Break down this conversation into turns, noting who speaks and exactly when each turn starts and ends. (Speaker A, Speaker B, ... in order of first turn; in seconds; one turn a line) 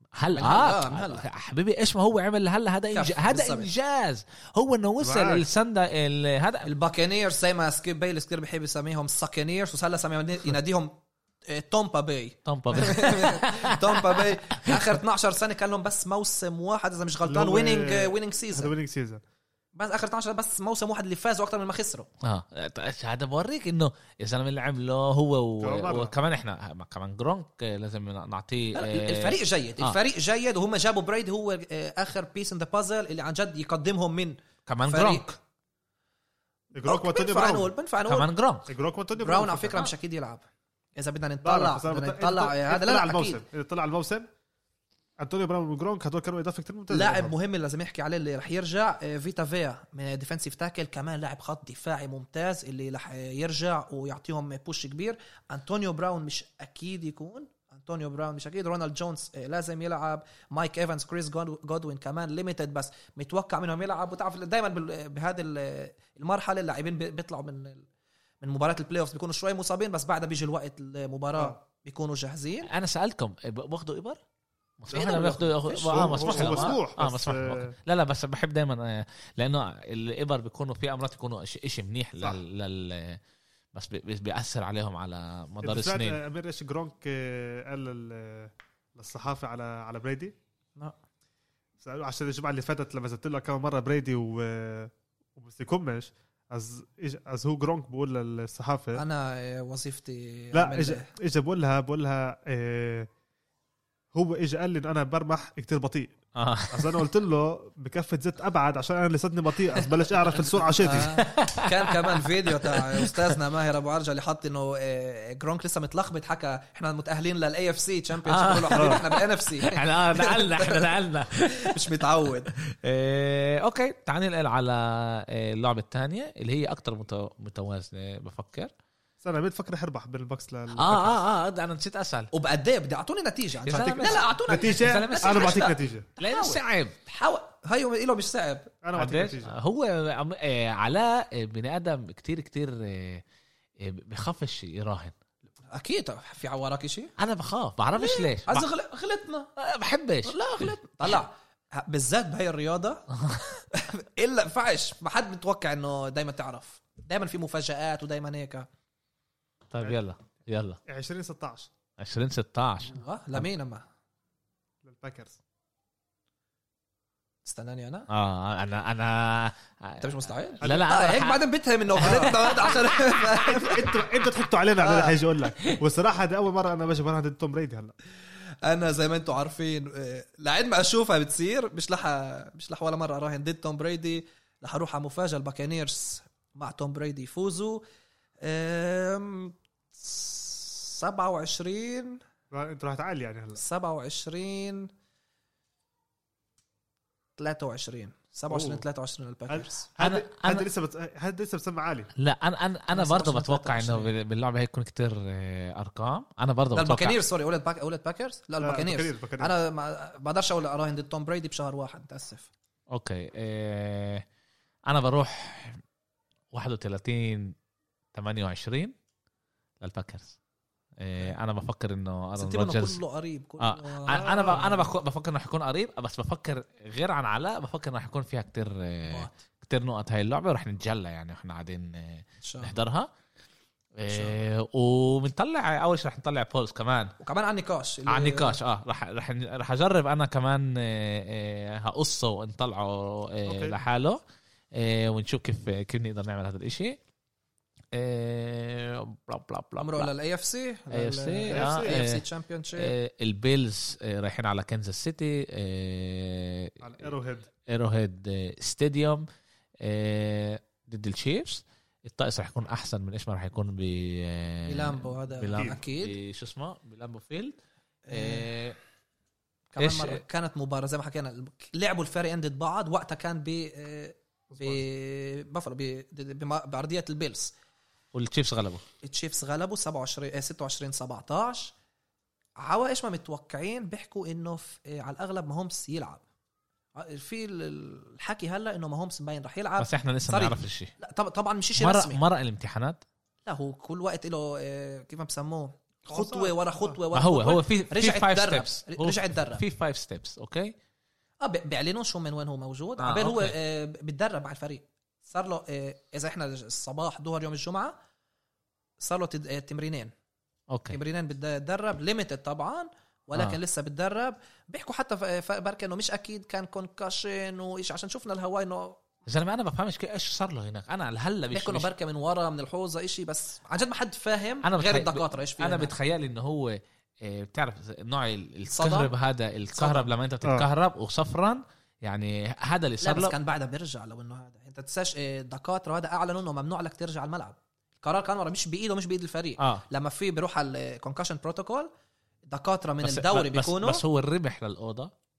Speaker A: 0.2-6.7
Speaker B: 0.3-1.2
Speaker B: 2.9-3.7
Speaker C: 5.0-5.5
Speaker B: 6.6-10.9
Speaker B: 11.5-18.7
Speaker A: 12.4-14.8
Speaker C: 17.3-19.2
Speaker B: 19.7-22.1
Speaker A: 22.2-30.0
Speaker C: 25.6-26.1
Speaker B: 28.7-35.3
Speaker A: 34.6-35.4
Speaker C: 36.7-37.7
Speaker B: 36.8-38.3
Speaker A: 38.1-38.7
Speaker C: 38.7-39.9
Speaker B: 39.2-40.5
Speaker B: 41.0-43.4
Speaker C: 41.4-44.3
Speaker C: 45.2-47.3
Speaker B: 46.9-67.9
Speaker B: 68.4-72.7
Speaker A: 72.7-74.2
Speaker A: 74.8-83.2
Speaker B: 74.9-76.8
Speaker C: 75.8-77.7
Speaker A: 83.7-86.2
Speaker C: 85.6-90.3
Speaker C: 91.8-99.0
Speaker B: 98.9-101.1
Speaker C: 100.5-103.1
Speaker C: 104.1-106.2
Speaker A: 106.3-107.0
Speaker C: 106.7-111.1
Speaker B: 110.8-120.9
Speaker A: 110.9-113.4
Speaker A: 118.2-128.7
Speaker C: 118.8-119.0
Speaker B: 121.4-122.5
Speaker C: 129.2-131.2
Speaker A: 130.8-132.3
Speaker B: 132.3-138.7
Speaker A: 133.7-136.9
Speaker C: 133.7-136.1
Speaker C: 138.8-139.5
Speaker A: 138.9-143.2
Speaker A: 143.8-145.1
Speaker B: 145.7-147.1
Speaker A: 147.2-148.7
Speaker B: 148.0-149.5
Speaker A: 149.6-151.2
Speaker B: 150.2-153.1
Speaker B: 153.7-158.7
Speaker A: 159.7-160.8
Speaker C: 160.9-161.7
Speaker A: 162.0-163.0
Speaker B: 162.9-163.8
Speaker C: 164.8-165.4
Speaker B: 167.4-168.1
Speaker A: 168.1-170.1
Speaker B: 170.0-174.0
Speaker A: 170.6-172.8
Speaker C: 172.0-172.3
Speaker C: 173.3-177.9
Speaker B: 174.8-175.8
Speaker B: 178.6-187.8
Speaker B: 188.4-192.2
Speaker C: 192.5-193.6
Speaker B: 193.6-194.9
Speaker B: 197.4-199.9
Speaker C: 198.5-198.8
Speaker C: 199.5-202.1
Speaker A: 200.0-200.6
Speaker A: 202.2-207.2
Speaker B: 202.9-204.1
Speaker B: 206.7-212.5
Speaker C: 208.6-209.5
Speaker A: 212.9-214.2
Speaker A: 214.9-215.8
Speaker A: 216.5-217.5
Speaker A: 218.1-218.9
Speaker A: 219.8-220.3
Speaker A: 221.0-223.0
Speaker B: 222.4-224.9
Speaker A: 223.6-233.1
Speaker C: 224.1-224.8
Speaker B: 229.1-229.3
Speaker B: 232.4-232.7
Speaker A: 233.9-237.1
Speaker B: 234.1-234.3
Speaker B: 237.2-238.6
Speaker A: 238.1-244.2
Speaker C: 243.5-243.8
Speaker A: 244.7-247.0
Speaker A: 247.9-250.1
Speaker B: 249.8-252.9
Speaker A: 250.9-256.8
Speaker C: 251.5-252.0
Speaker C: 256.8-257.5
Speaker A: 257.7-259.2
Speaker A: 259.8-267.6
Speaker B: 264.6-266.1
Speaker B: 268.1-268.5
Speaker A: 268.1-268.8
Speaker B: 269.7-277.5
Speaker A: 269.8-270.2
Speaker C: 274.5-274.8
Speaker A: 278.1-278.8
Speaker B: 279.0-281.7
Speaker B: 282.6-286.2
Speaker B: 286.9-292.2
Speaker A: 289.8-290.9
Speaker A: 291.8-293.0
Speaker B: 293.4-299.6
Speaker C: 296.1-297.0
Speaker A: 297.1-300.7
Speaker B: 301.4-307.9
Speaker A: 303.0-303.5
Speaker B: 309.0-310.1
Speaker A: 310.7-311.0
Speaker B: 310.9-319.0
Speaker A: 313.3-313.6
Speaker A: 319.2-321.9
Speaker B: 321.5-325.9
Speaker A: 324.6-333.3
Speaker B: 328.7-329.1
Speaker B: 329.8-330.1
Speaker B: 333.0-341.9
Speaker A: 339.6-339.8
Speaker B: 342.5-344.0
Speaker A: 343.0-345.1